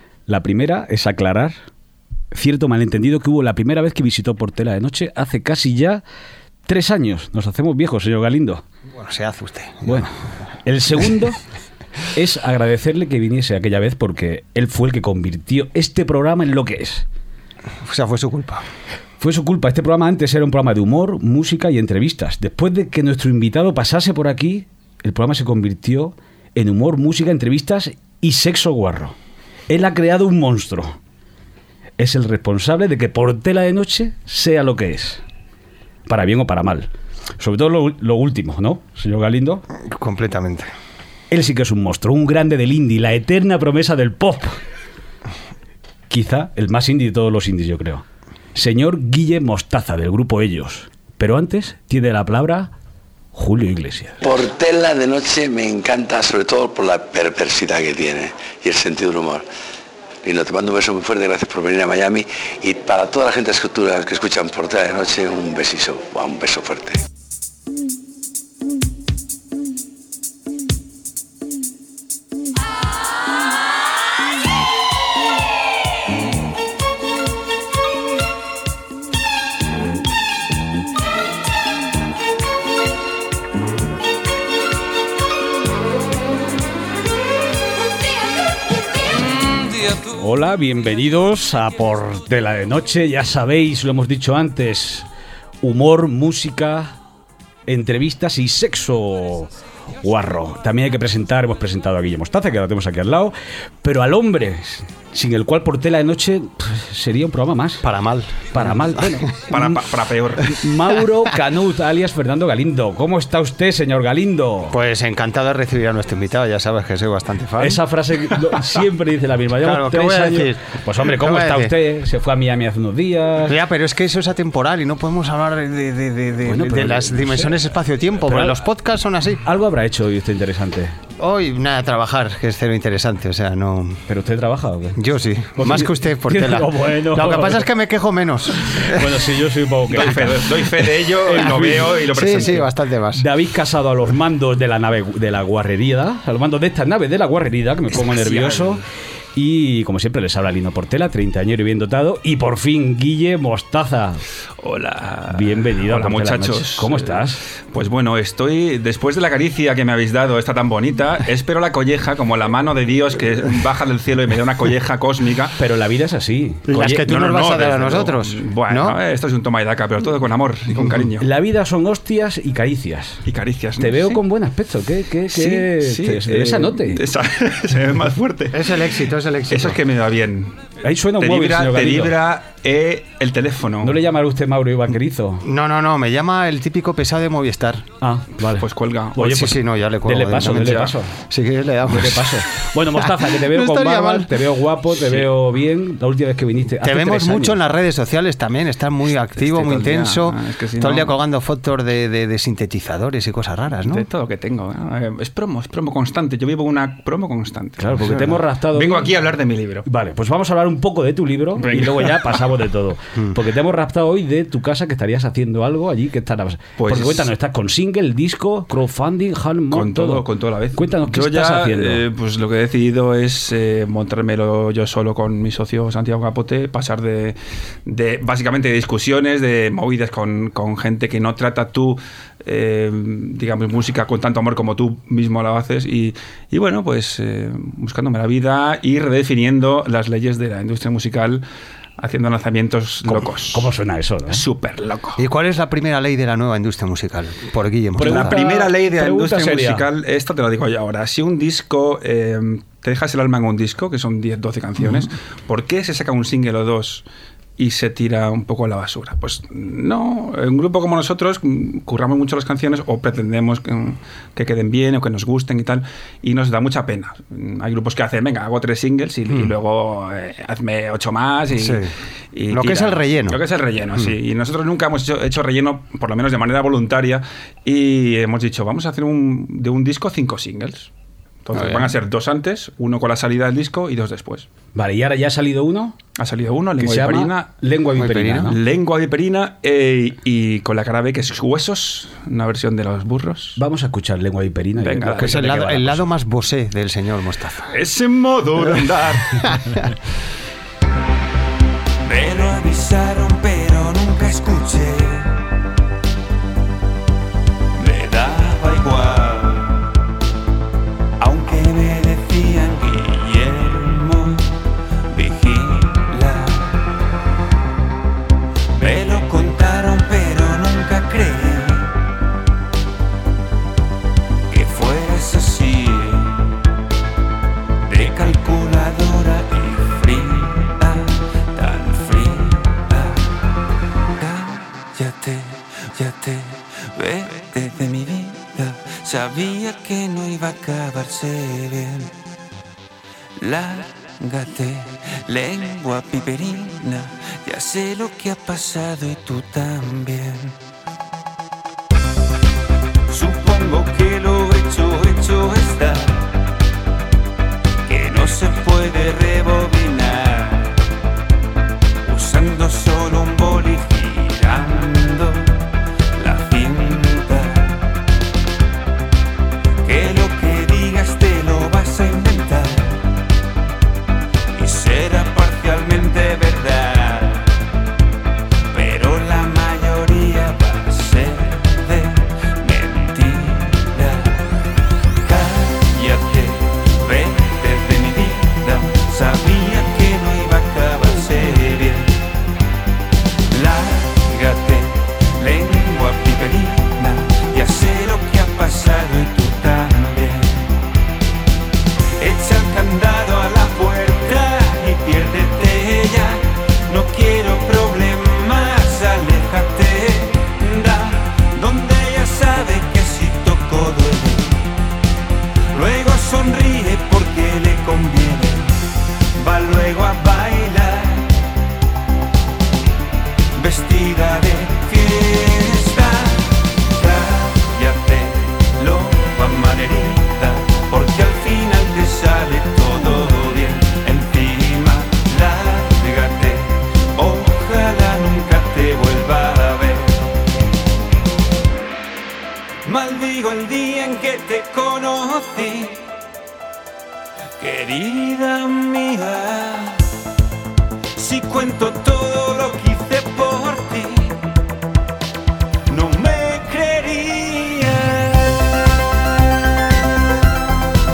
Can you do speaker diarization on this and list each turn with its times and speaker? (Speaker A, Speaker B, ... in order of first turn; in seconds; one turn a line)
Speaker A: 0.3-1.6
Speaker A: 2.3-6.0
Speaker A: 6.7-8.6
Speaker B: 8.9-10.1
Speaker A: 9.8-10.1
Speaker A: 10.7-11.4
Speaker A: 12.1-17.1
Speaker B: 17.8-18.6
Speaker A: 19.2-29.2
Speaker A: 29.7-31.0
Speaker A: 32.0-35.2
Speaker A: 36.1-39.6
Speaker B: 39.8-40.7
Speaker A: 41.3-44.6
Speaker A: 46.1-52.7
Speaker A: 53.3-54.2
Speaker C: 54.2-59.5
Speaker C: 60.2-67.0
Speaker A: 90.1-95.1
Speaker A: 95.6-97.0
Speaker A: 97.7-99.5
Speaker A: 100.0-107.8
Speaker B: 107.8-109.2
Speaker A: 108.5-109.8
Speaker D: 109.5-110.6
Speaker A: 110.5-114.8
Speaker B: 114.7-117.8
Speaker A: 117.6-123.6
Speaker B: 119.6-121.8
Speaker B: 123.5-129.4
Speaker A: 126.5-127.7
Speaker A: 128.3-128.7
Speaker A: 129.4-131.0
Speaker B: 131.2-134.0
Speaker A: 134.1-135.0
Speaker B: 135.0-139.2
Speaker A: 135.6-137.7
Speaker A: 138.8-140.4
Speaker D: 139.9-142.7
Speaker A: 141.2-142.0
Speaker B: 142.1-143.3
Speaker A: 143.2-148.8
Speaker D: 148.2-148.6
Speaker A: 149.4-154.2
Speaker D: 154.6-165.6
Speaker A: 155.3-157.4
Speaker A: 165.6-167.1
Speaker B: 166.7-169.0
Speaker D: 167.0-171.3
Speaker B: 170.8-171.0
Speaker A: 171.2-173.2
Speaker D: 173.3-174.2
Speaker A: 173.8-177.0
Speaker D: 175.3-178.8
Speaker B: 178.5-179.8
Speaker D: 179.5-184.0
Speaker A: 180.8-182.1
Speaker A: 183.8-185.4
Speaker B: 185.4-187.9
Speaker A: 188.0-191.1
Speaker D: 188.6-189.4
Speaker B: 189.2-192.5
Speaker D: 190.5-190.9
Speaker A: 191.9-197.6
Speaker B: 193.0-194.4
Speaker B: 196.8-204.1
Speaker D: 199.4-201.1
Speaker D: 203.8-209.9
Speaker A: 207.8-209.1
Speaker A: 209.8-222.0
Speaker D: 211.6-212.4
Speaker D: 216.8-217.3
Speaker D: 219.7-241.4
Speaker D: 242.0-243.7
Speaker A: 243.1-244.4
Speaker D: 244.3-245.2
Speaker B: 245.2-248.4
Speaker A: 248.0-249.9
Speaker D: 248.0-257.0
Speaker D: 257.6-280.9
Speaker B: 271.5-271.9
Speaker B: 272.5-273.4
Speaker D: 281.4-284.5
Speaker B: 281.5-281.9
Speaker A: 284.8-286.0
Speaker D: 286.2-287.5
Speaker A: 286.8-288.6
Speaker B: 288.0-288.6
Speaker D: 288.5-293.6
Speaker A: 293.6-296.0
Speaker D: 294.8-295.8
Speaker B: 295.2-297.7
Speaker D: 297.7-299.6
Speaker E: 302.1-305.3
Speaker E: 307.8-309.7
Speaker E: 311.2-314.4
Speaker E: 315.1-316.6
Speaker E: 318.8-321.9
Speaker E: 324.5-326.4
Speaker E: 327.9-333.1
Speaker E: 334.2-342.1
Speaker E: 343.4-350.5
Speaker E: 353.1-356.2
Speaker E: 357.9-360.7
Speaker E: 362.1-365.5
Speaker E: 366.2-367.7
Speaker E: 369.9-373.0
Speaker E: 374.6-377.5
Speaker E: 378.7-384.3
Speaker E: 385.3-392.1
Speaker E: 393.5-400.7
Speaker E: 402.2-414.6
Speaker E: 415.7-418.7
Speaker E: 419.4-421.3
Speaker E: 423.6-426.4
Speaker E: 427.0-440.1
Speaker D: 427.6-428.1
Speaker D: 428.9-430.2
Speaker D: 431.4-433.1
Speaker D: 433.8-435.4
Speaker D: 442.9-444.1
Speaker E: 443.1-446.0
Speaker E: 447.6-450.0
Speaker E: 451.2-454.4
Speaker E: 455.9-458.4